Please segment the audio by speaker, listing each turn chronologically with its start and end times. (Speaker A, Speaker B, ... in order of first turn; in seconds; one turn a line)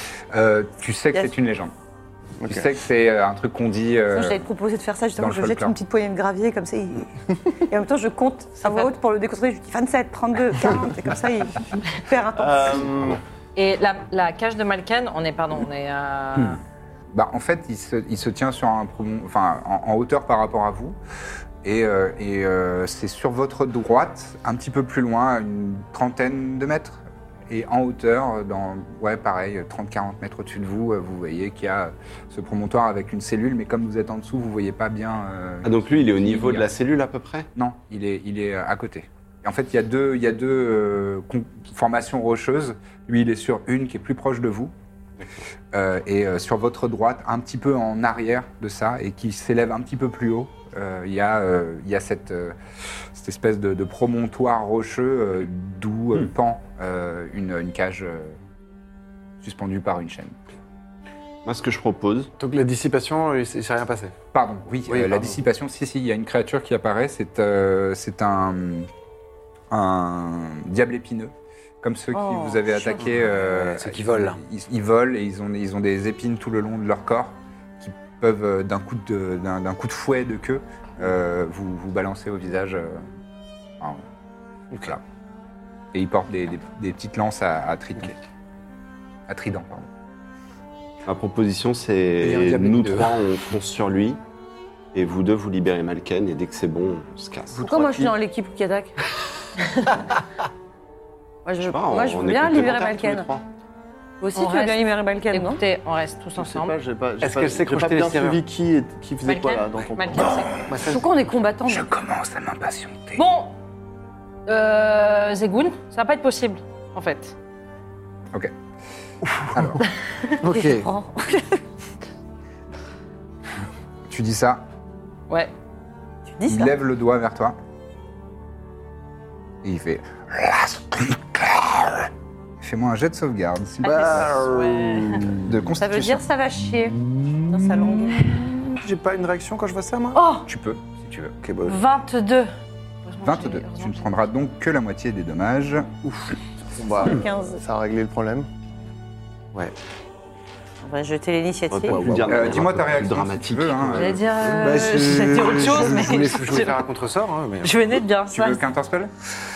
Speaker A: 0.3-1.7
Speaker B: 2.4-2.7
Speaker A: 2.5-4.4
Speaker C: 4.1-7.1
Speaker A: 5.2-5.8
Speaker C: 7.7-12.9
Speaker D: 8.6-8.9
Speaker B: 12.4-13.2
Speaker D: 13.5-16.6
Speaker A: 17.1-21.0
Speaker A: 21.6-36.7
Speaker E: 35.6-37.5
Speaker A: 37.5-44.7
Speaker A: 45.7-52.5
Speaker A: 53.1-58.4
Speaker A: 59.4-60.3
Speaker E: 61.4-62.3
Speaker F: 62.4-64.1
Speaker A: 64.3-68.9
Speaker F: 64.9-65.4
Speaker A: 69.7-83.0
Speaker C: 72.1-73.0
Speaker F: 73.0-74.4
Speaker F: 84.7-85.0
Speaker A: 85.9-88.1
Speaker A: 89.3-89.9
Speaker E: 91.0-94.2
Speaker F: 92.2-93.0
Speaker E: 94.9-97.9
Speaker C: 97.6-99.0
Speaker C: 101.4-103.3
Speaker E: 101.6-103.4
Speaker C: 104.2-105.6
Speaker D: 104.3-106.7
Speaker B: 106.4-110.4
Speaker F: 107.2-108.4
Speaker D: 109.2-110.5
Speaker F: 110.7-111.1
Speaker C: 110.8-111.9
Speaker A: 111.7-113.2
Speaker D: 113.2-113.5
Speaker D: 114.5-117.3
Speaker F: 119.3-119.8
Speaker A: 119.5-119.8
Speaker F: 120.4-120.9
Speaker C: 120.4-121.6
Speaker A: 124.1-124.6
Speaker C: 126.3-126.7
Speaker A: 126.5-127.6
Speaker A: 129.6-134.4
Speaker D: 133.8-135.3
Speaker F: 133.8-135.5
Speaker A: 135.4-136.3
Speaker C: 135.8-138.5
Speaker A: 136.9-137.9
Speaker F: 138.7-140.3
Speaker D: 140.2-140.4
Speaker A: 140.4-141.3
Speaker F: 141.4-141.8
Speaker D: 141.6-142.5
Speaker D: 143.1-144.2
Speaker A: 143.2-145.9
Speaker B: 146.8-148.5
Speaker C: 147.0-147.6
Speaker C: 150.8-152.0
Speaker E: 151.7-154.8
Speaker F: 151.9-152.6
Speaker A: 152.3-154.2
Speaker D: 153.9-156.8
Speaker F: 154.5-157.9
Speaker D: 157.6-158.6
Speaker A: 158.3-159.1